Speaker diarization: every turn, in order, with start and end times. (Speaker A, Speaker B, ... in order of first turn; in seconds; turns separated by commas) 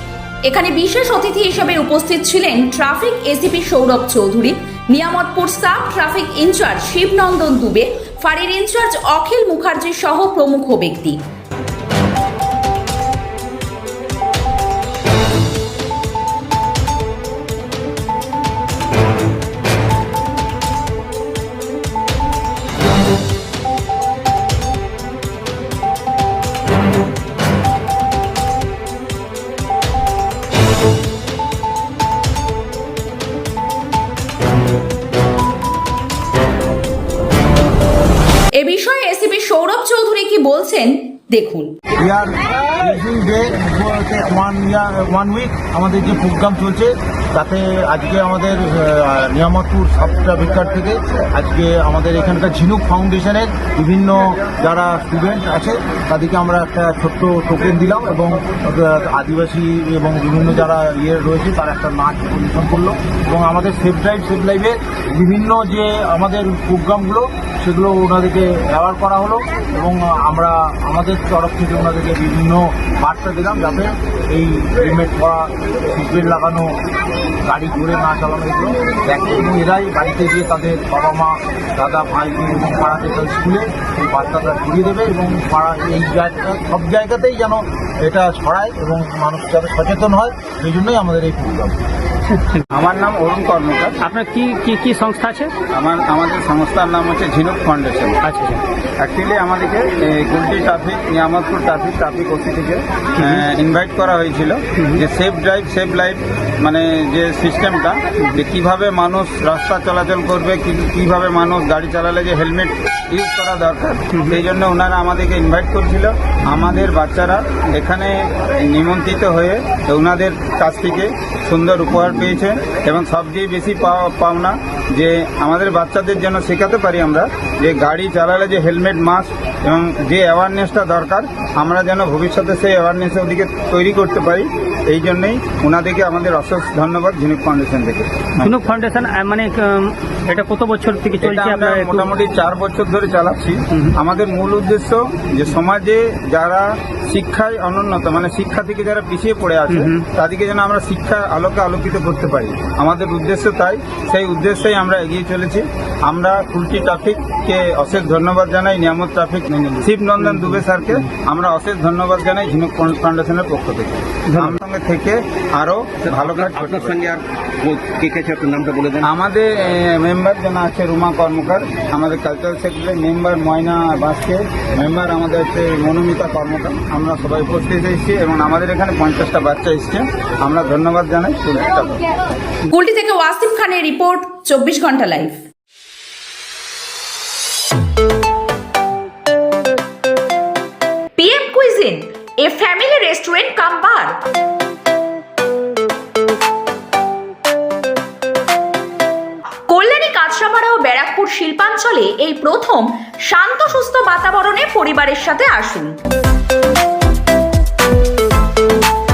Speaker A: 0.5-11.2, Speaker A: 38.5-41.8, Speaker B: 42.0-76.8, Speaker B: 77.5-91.8, Speaker C: 92.3-92.6, Speaker D: 92.7-94.0, Speaker C: 94.0-95.5, Speaker D: 95.7-98.2, Speaker C: 98.2-98.6, Speaker D: 99.0-138.6, Speaker C: 114.1-114.4, Speaker C: 138.4-142.1, Speaker D: 141.2-167.0, Speaker C: 149.7-150.0, Speaker C: 160.2-160.6, Speaker C: 164.3-164.6, Speaker E: 166.0-169.1, Speaker D: 169.0-182.0, Speaker A: 182.7-185.4, Speaker A: 191.2-194.2, Speaker A: 199.7-205.9